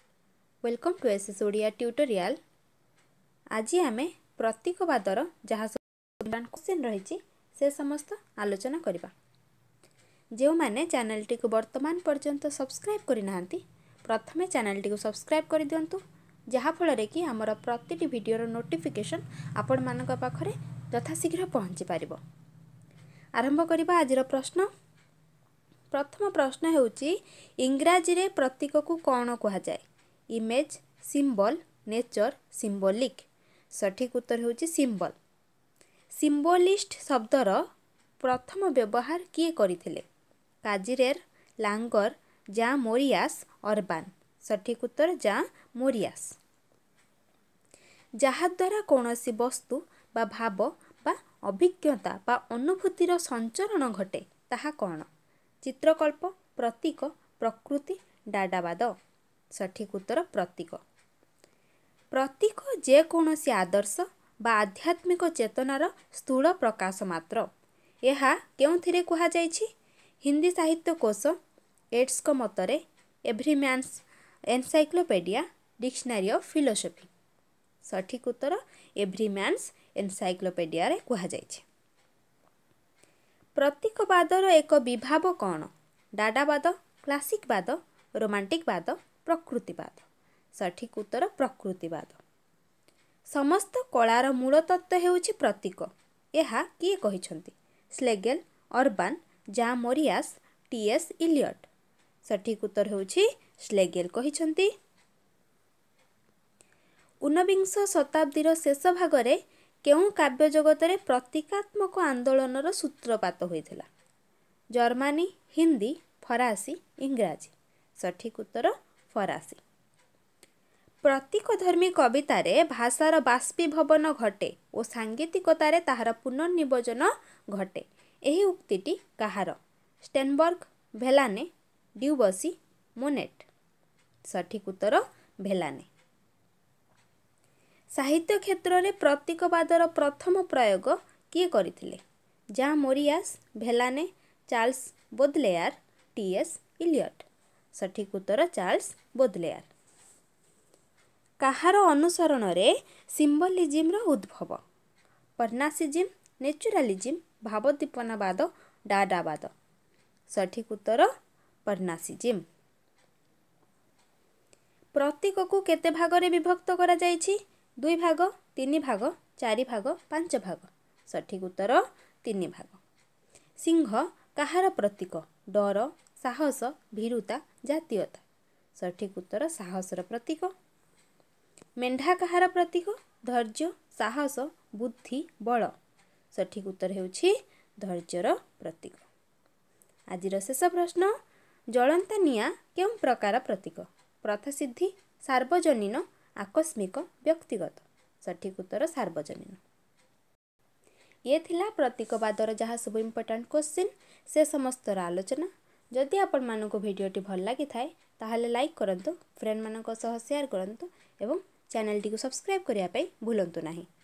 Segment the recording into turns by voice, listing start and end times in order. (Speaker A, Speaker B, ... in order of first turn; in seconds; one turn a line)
Speaker A: 0.6-2.4
Speaker A: 3.5-9.1
Speaker A: 10.4-16.0
Speaker A: 16.5-22.2
Speaker A: 23.4-24.7
Speaker A: 25.9-33.2
Speaker A: 33.8-35.1
Speaker A: 36.1-37.6
Speaker A: 38.2-40.0
Speaker A: 40.6-46.3
Speaker A: 48.2-55.1
Speaker A: 55.6-58.9
Speaker A: 59.5-60.8
Speaker A: 62.1-67.5
Speaker A: 68.0-69.7
Speaker A: 70.2-71.3
Speaker A: 71.9-77.1
Speaker A: 77.8-81.6
Speaker A: 83.5-92.2
Speaker A: 93.3-101.7
Speaker A: 102.2-104.7
Speaker A: 107.2-113.8
Speaker A: 114.8-119.6
Speaker A: 121.0-131.5
Speaker A: 132.0-133.5
Speaker A: 134.3-135.9
Speaker A: 138.0-142.0
Speaker A: 142.6-149.7
Speaker A: 151.4-154.6
Speaker A: 155.4-159.5
Speaker A: 160.3-161.1
Speaker A: 161.7-162.4
Speaker A: 164.9-172.8
Speaker A: 173.6-178.2
Speaker A: 178.8-180.5
Speaker A: 181.8-185.7
Speaker A: 186.3-189.0
Speaker A: 190.1-191.1
Speaker A: 191.7-199.6
Speaker A: 201.3-213.9